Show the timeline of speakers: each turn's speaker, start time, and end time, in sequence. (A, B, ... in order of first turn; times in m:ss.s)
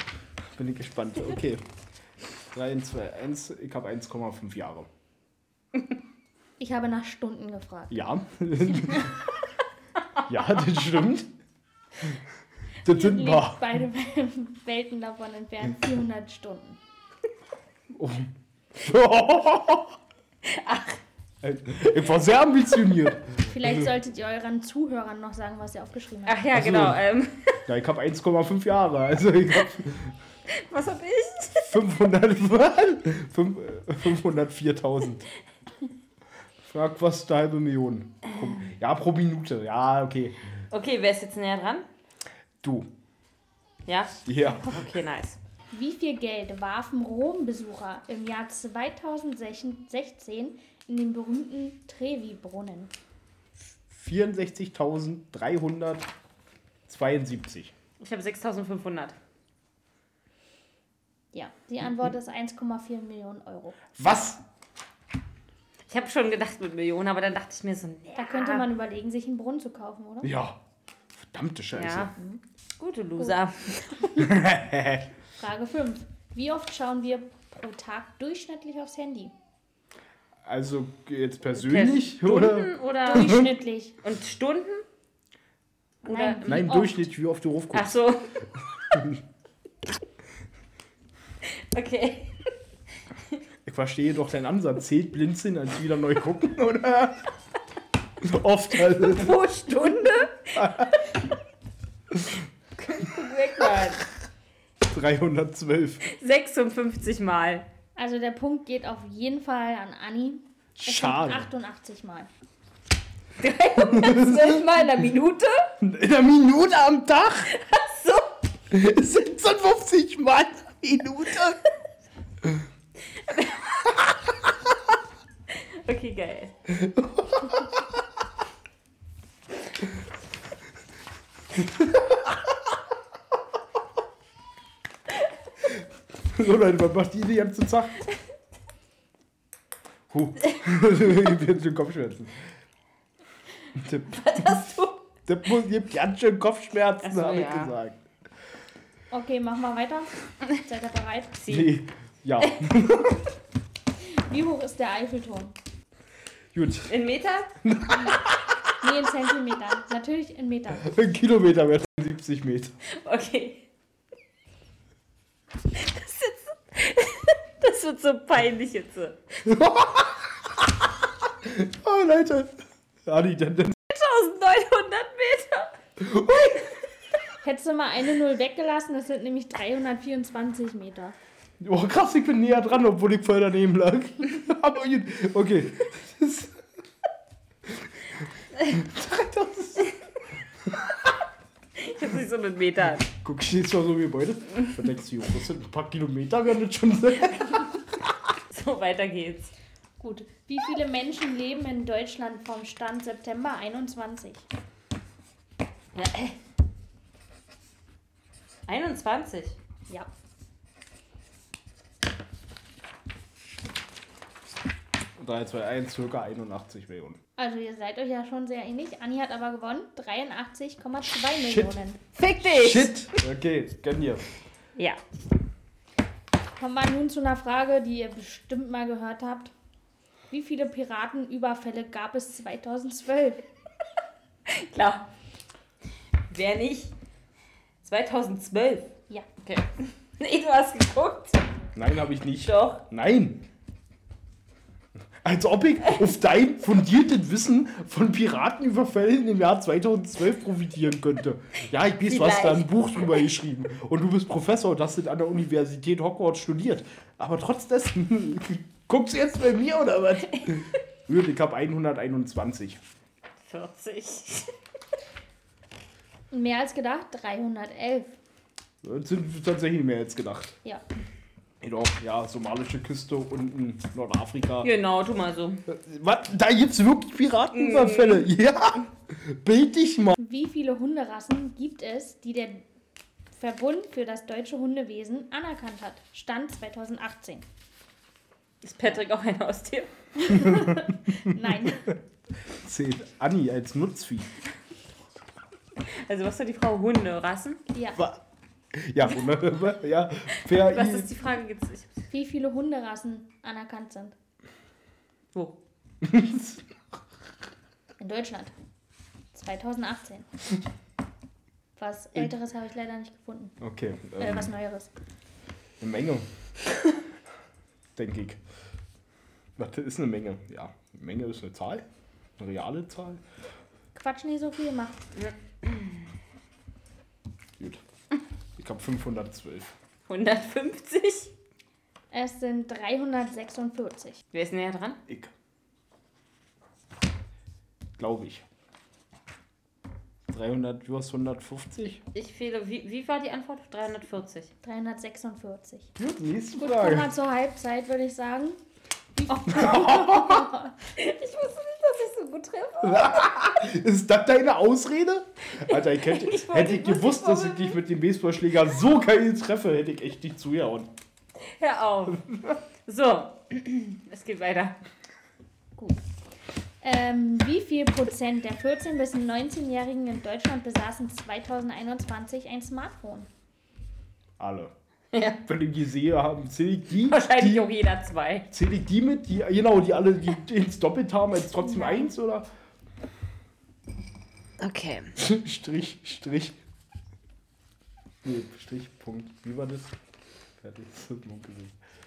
0:00.4-0:01.7 A
0:02.5-0:04.9 A
0:06.6-0:08.0 B
0:07.9-0:09.2 A
0:10.2-0:11.3 A
0:12.9-0:13.8 A
0:12.9-0:16.8 B
0:17.9-0:20.0 A
0:20.5-0:21.0 C
0:21.4-0:23.9 A
0:23.5-0:26.5 B
0:26.3-0:27.6 C
0:26.5-0:27.0 A
0:27.7-0:30.2 A
0:30.5-0:31.8 C
0:31.7-0:35.3 A
0:36.7-0:40.4 A
0:40.7-0:41.9 C
0:42.6-0:42.9 A
0:43.9-0:45.4 C
0:44.3-0:44.8 A
0:45.7-0:52.9 B
0:53.9-0:56.1 A
0:56.9-0:57.7 A
0:58.0-0:59.2 C
1:01.3-1:03.8 B
1:04.0-1:04.4 A
1:05.9-1:08.7 C
1:08.2-1:10.3 B
1:10.2-1:10.6 A
1:11.2-1:12.1 A
1:11.8-1:12.1 C
1:12.8-1:14.3 C
1:14.2-1:15.1 A
1:15.4-1:19.3 B
1:20.4-1:23.5 A
1:21.6-1:23.4 C
1:23.0-1:24.0 B
1:24.0-1:24.8 C
1:26.0-1:27.0 C
1:26.1-1:26.6 B
1:26.4-1:28.0 A
1:27.7-1:28.3 C
1:28.9-1:29.2 A
1:31.4-1:32.4 C
1:33.6-1:37.3 A
1:38.2-1:39.4 A
1:39.0-1:40.8 C
1:40.5-1:41.0 A
1:42.8-1:44.1 C
1:44.9-1:46.0 A
1:46.0-1:47.7 C
1:48.0-1:52.3 B
1:50.8-1:51.5 A
1:53.4-1:55.7 C
1:53.8-1:54.6 A
1:55.8-1:57.5 A
1:57.5-1:58.3 C
1:58.7-2:01.6 A
2:03.1-2:04.1 C
2:05.5-2:06.5 C
2:06.7-2:07.8 A
2:11.5-2:12.6 A
2:16.3-2:18.0 A
2:20.1-2:22.4 A
2:23.7-2:24.7 A
2:24.1-2:25.0 C
2:25.3-2:28.0 A
2:27.0-2:27.7 C
2:29.1-2:31.4 B
2:31.4-2:31.7 C
2:31.5-2:33.3 A
2:34.1-2:35.6 B
2:36.5-2:36.9 A
2:36.9-2:37.5 C
2:37.6-2:38.2 A
2:38.8-2:40.9 B
2:40.8-2:42.7 A
2:42.9-2:43.7 C
2:45.7-2:49.2 C
2:49.4-2:53.8 A
2:53.9-2:55.8 C
2:56.0-2:56.7 A
2:57.4-3:01.2 B
3:01.6-3:06.6 A
3:07.7-3:10.0 A
3:10.6-3:11.1 A
3:11.8-3:13.1 C
3:13.1-3:18.1 A
3:18.5-3:19.5 C
3:20.0-3:24.5 B
3:26.0-3:26.4 C
3:28.7-3:29.6 C
3:35.2-3:37.2 A
3:37.4-3:42.0 B
3:41.4-3:41.8 A
3:42.2-3:43.2 C
3:42.4-3:44.3 A
3:46.6-3:49.5 B
3:50.3-3:53.4 B
3:54.5-3:55.1 C
3:56.3-3:56.9 C
3:57.8-4:01.4 C
4:01.8-4:03.5 A
4:02.4-4:02.8 C
4:05.2-4:22.8 A
4:12.0-4:12.9 C
4:23.4-4:24.5 C
4:26.3-4:28.2 B
4:28.8-4:30.5 A
4:31.6-4:34.7 A
4:34.6-4:35.6 C
4:35.7-4:40.2 A
4:37.5-4:38.3 C
4:40.2-4:42.6 B
4:43.3-4:47.4 B
4:48.6-4:50.6 C
4:50.2-4:52.0 B
4:51.3-4:51.9 A
4:52.5-4:54.3 A
4:55.9-4:57.6 C
4:57.7-4:58.0 B
4:58.0-4:58.2 A
4:58.7-5:01.1 A
5:00.4-5:02.0 C
5:02.1-5:04.2 B
5:06.0-5:06.7 A
5:08.0-5:08.5 B
5:09.3-5:10.3 B
5:11.8-5:13.6 B
5:13.6-5:14.5 A
5:14.2-5:14.9 B
5:15.8-5:16.3 A
5:18.0-5:18.4 A
5:19.6-5:21.8 A
5:22.4-5:23.2 A
5:24.0-5:25.0 B
5:25.2-5:26.0 C
5:28.6-5:29.7 A
5:30.1-5:31.3 C
5:32.1-5:34.2 B
5:34.3-5:35.0 C
5:35.1-5:35.3 A
5:38.0-5:38.4 A
5:40.3-5:42.0 A
5:42.1-5:44.5 C
5:44.6-5:45.9 B
5:46.0-5:47.1 A
5:46.6-5:48.6 B
5:49.2-5:50.7 B
5:49.5-5:50.5 A
5:49.6-5:49.8 C
5:50.9-5:53.4 C
5:52.8-6:00.9 A
5:55.6-5:57.8 C
6:01.4-6:02.2 C
6:02.9-6:04.8 C
6:06.8-6:13.3 B
6:14.4-6:14.7 A
6:15.1-6:15.4 C
6:15.5-6:17.7 A
6:17.0-6:18.5 C
6:18.5-6:22.5 A
6:21.6-6:22.1 B
6:24.6-6:25.2 C
6:25.2-6:26.6 A
6:28.2-6:29.9 A
6:30.6-6:31.8 A